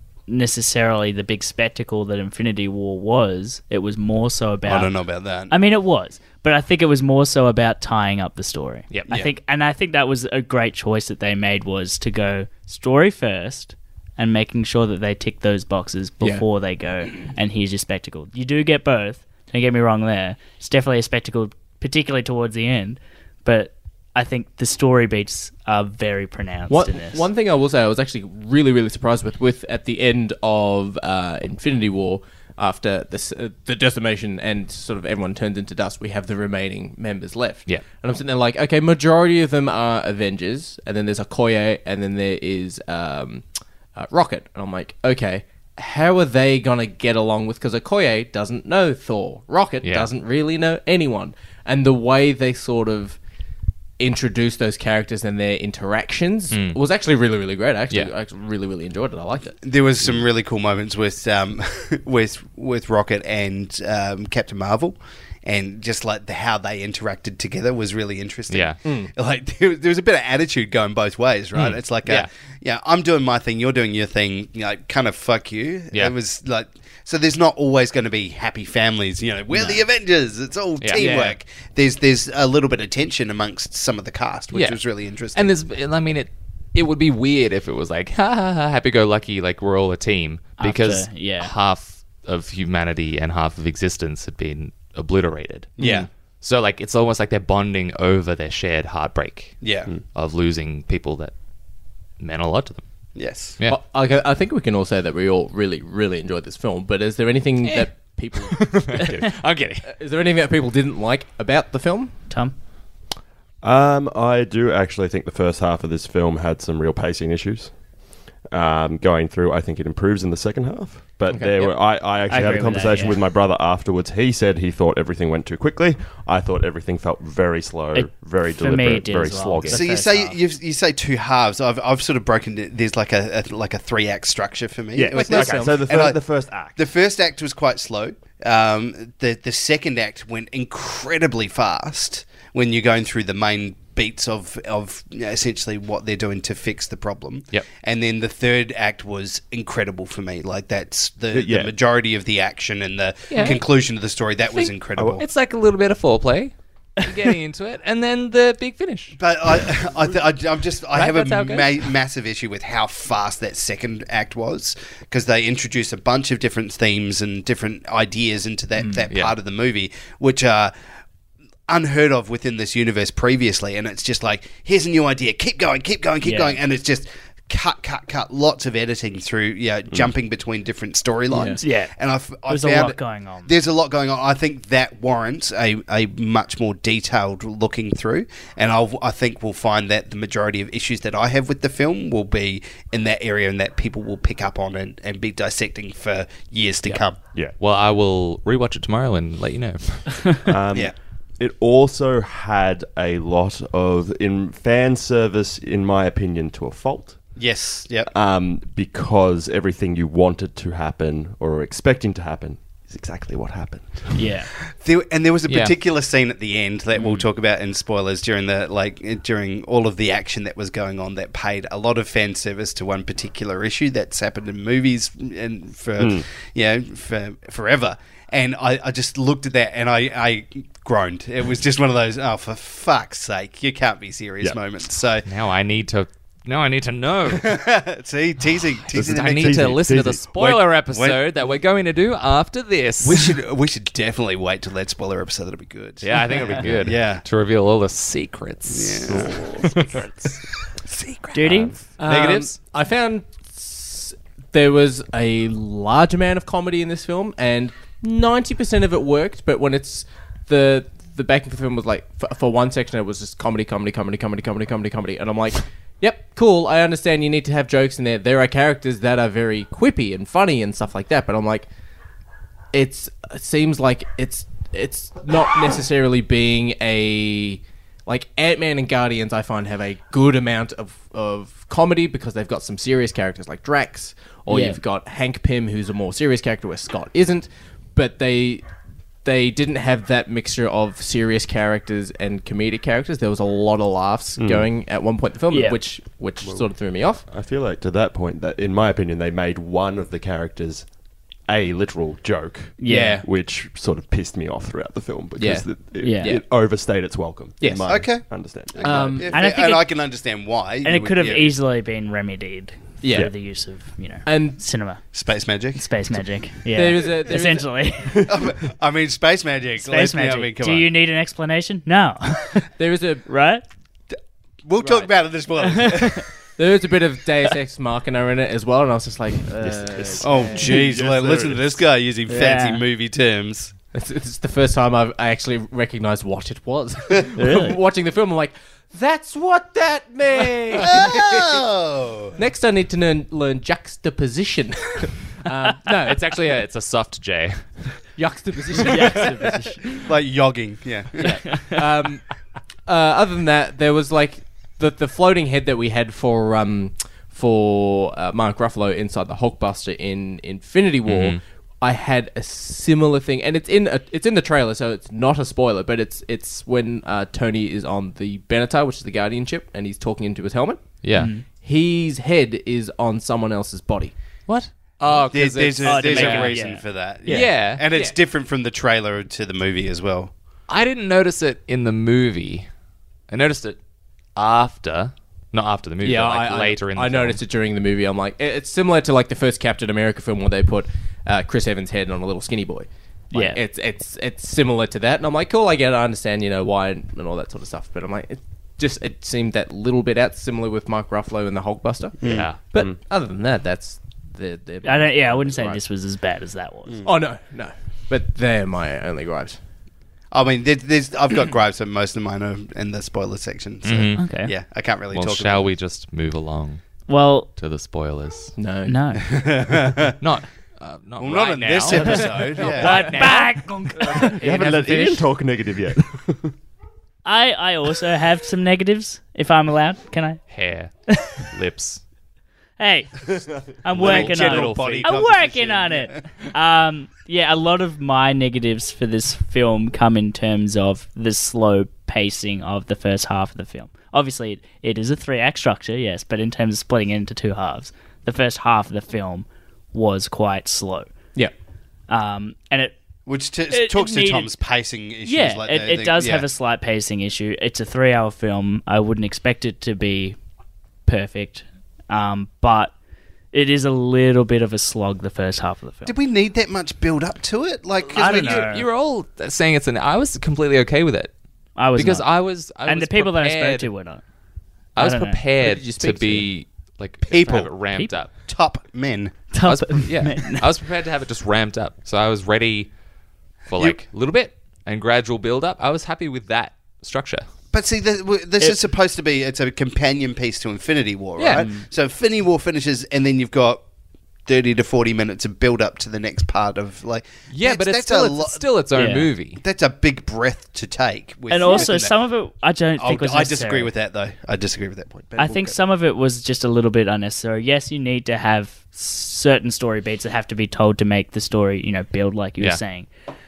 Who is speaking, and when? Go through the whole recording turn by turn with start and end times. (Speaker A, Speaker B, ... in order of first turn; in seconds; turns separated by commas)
Speaker A: 0.3-4.9, Speaker B: 4.6-5.5, Speaker A: 5.5-27.2, Speaker C: 26.7-53.2, Speaker D: 49.8-50.1, Speaker C: 54.0-59.6, Speaker D: 56.5-56.8, Speaker B: 59.6-85.5, Speaker D: 68.5-68.8, Speaker C: 68.8-69.1, Speaker D: 71.5-72.3, Speaker D: 80.8-81.3, Speaker C: 80.9-81.3, Speaker D: 84.5-84.8, Speaker D: 85.3-95.7, Speaker A: 90.6-91.5, Speaker B: 95.8-96.1, Speaker D: 96.4-101.3, Speaker B: 99.6-99.9, Speaker D: 102.2-102.8, Speaker B: 103.2-103.6, Speaker C: 103.7-109.2, Speaker D: 107.6-109.9, Speaker C: 109.9-112.2, Speaker E: 113.6-117.7, Speaker E: 118.5-129.8, Speaker C: 121.3-121.7, Speaker A: 122.3-123.2, Speaker A: 127.9-130.4, Speaker B: 129.7-136.2, Speaker E: 134.9-136.8, Speaker C: 135.1-135.8, Speaker B: 136.8-155.2, Speaker E: 151.3-151.7, Speaker D: 153.3-153.7, Speaker D: 154.5-159.2, Speaker E: 155.0-155.2, Speaker B: 159.2-170.7, Speaker D: 160.9-161.9, Speaker D: 169.1-169.3, Speaker B: 171.7-197.2, Speaker A: 176.2-176.6, Speaker C: 181.3-181.6, Speaker A: 181.6-183.5, Speaker D: 197.6-200.4, Speaker E: 200.4-207.2, Speaker B: 207.3-208.1, Speaker E: 208.1-214.2, Speaker A: 214.1-214.5, Speaker B: 214.8-235.2, Speaker D: 215.5-215.7, Speaker E: 226.0-226.2, Speaker D: 235.2-237.5, Speaker B: 237.3-239.8, Speaker D: 238.6-243.4, Speaker E: 238.9-240.3, Speaker B: 240.3-241.5, Speaker B: 243.0-247.2, Speaker D: 246.0-250.1, Speaker B: 248.7-252.1, Speaker E: 249.1-249.5, Speaker A: 251.3-251.7, Speaker C: 252.0-271.7, Speaker D: 252.0-252.5, Speaker C: 272.7-288.6, Speaker A: 284.5-284.8, Speaker C: 289.2-297.2, Speaker E: 294.4-294.7, Speaker A: 295.5-295.8, Speaker E: 296.4-296.7, Speaker E: 297.3-300.9, Speaker E: 301.5-309.3, Speaker A: 302.8-303.2, Speaker C: 302.9-303.2, Speaker C: 305.4-306.4, Speaker A: 306.0-306.3, Speaker C: 307.6-308.1, Speaker B: 307.9-311.5, Speaker C: 308.8-309.3, Speaker A: 309.3-309.9, Speaker A: 310.8-315.0, Speaker C: 313.0-313.3, Speaker C: 314.2-314.6, Speaker B: 315.1-315.9, Speaker A: 315.7-318.3, Speaker C: 316.7-317.7, Speaker B: 318.2-320.9, Speaker A: 319.8-322.7, Speaker C: 322.8-323.2, Speaker A: 323.2-323.6, Speaker B: 324.1-326.3, Speaker C: 324.8-325.1, Speaker A: 325.6-326.1, Speaker C: 326.6-330.9, Speaker E: 329.6-331.8, Speaker B: 330.2-333.7, Speaker A: 332.3-332.8, Speaker C: 333.9-341.6, Speaker A: 337.4-337.8, Speaker B: 340.8-342.3, Speaker C: 342.4-346.4, Speaker D: 345.9-348.0, Speaker C: 348.1-350.0, Speaker A: 348.9-349.7, Speaker B: 349.9-351.7, Speaker A: 351.2-351.7, Speaker C: 351.2-352.3, Speaker C: 352.9-374.1, Speaker D: 361.0-361.4, Speaker D: 371.0-371.3, Speaker A: 371.1-371.4, Speaker D: 374.5-376.6, Speaker B: 375.3-380.3, Speaker A: 375.8-376.8, Speaker C: 377.2-378.1, Speaker D: 377.3-377.8, Speaker D: 380.7-382.7, Speaker D: 383.3-383.8, Speaker D: 384.4-387.4, Speaker C: 386.0-405.8, Speaker A: 393.3-393.6, Speaker B: 402.2-402.5, Speaker D: 402.2-402.6, Speaker A: 404.8-406.9, Speaker C: 407.0-409.6, Speaker B: 410.3-415.7, Speaker D: 413.8-414.4, Speaker A: 414.2-414.5, Speaker D: 415.1-416.8, Speaker A: 417.1-417.5, Speaker D: 417.5-418.5, Speaker C: 418.6-419.0, Speaker A: 418.9-419.2, Speaker B: 419.2-420.2, Speaker D: 420.2-423.5, Speaker B: 421.2-423.3, Speaker A: 422.0-424.4, Speaker C: 422.6-423.2, Speaker C: 424.1-424.9, Speaker E: 424.1-426.5, Speaker B: 424.7-425.1, Speaker A: 427.2-430.4, Speaker D: 430.5-432.0, Speaker A: 431.1-431.4, Speaker A: 432.8-451.1, Speaker B: 433.9-436.2, Speaker D: 434.0-435.1, Speaker A: 452.1-452.9, Speaker B: 453.3-456.5, Speaker A: 453.7-454.5, Speaker A: 455.2-460.4, Speaker A: 461.1-462.9, Speaker A: 463.5-466.1, Speaker B: 466.1-468.7, Speaker A: 468.1-468.9, Speaker D: 468.1-471.3, Speaker A: 471.8-474.2, Speaker D: 471.9-473.9, Speaker D: 474.9-478.3, Speaker A: 475.0-475.4, Speaker C: 475.6-476.5, Speaker B: 477.2-477.8, Speaker A: 477.4-478.2, Speaker B: 478.4-479.5, Speaker A: 479.5-480.7, Speaker D: 479.6-482.9, Speaker D: 483.7-487.4, Speaker B: 487.7-493.8, Speaker D: 491.4-491.7, Speaker A: 491.5-491.9, Speaker B: 494.4-498.7, Speaker D: 497.5-499.6, Speaker A: 498.9-499.3, Speaker B: 499.6-502.1, Speaker A: 501.5-503.9, Speaker B: 503.0-505.8, Speaker A: 505.4-513.1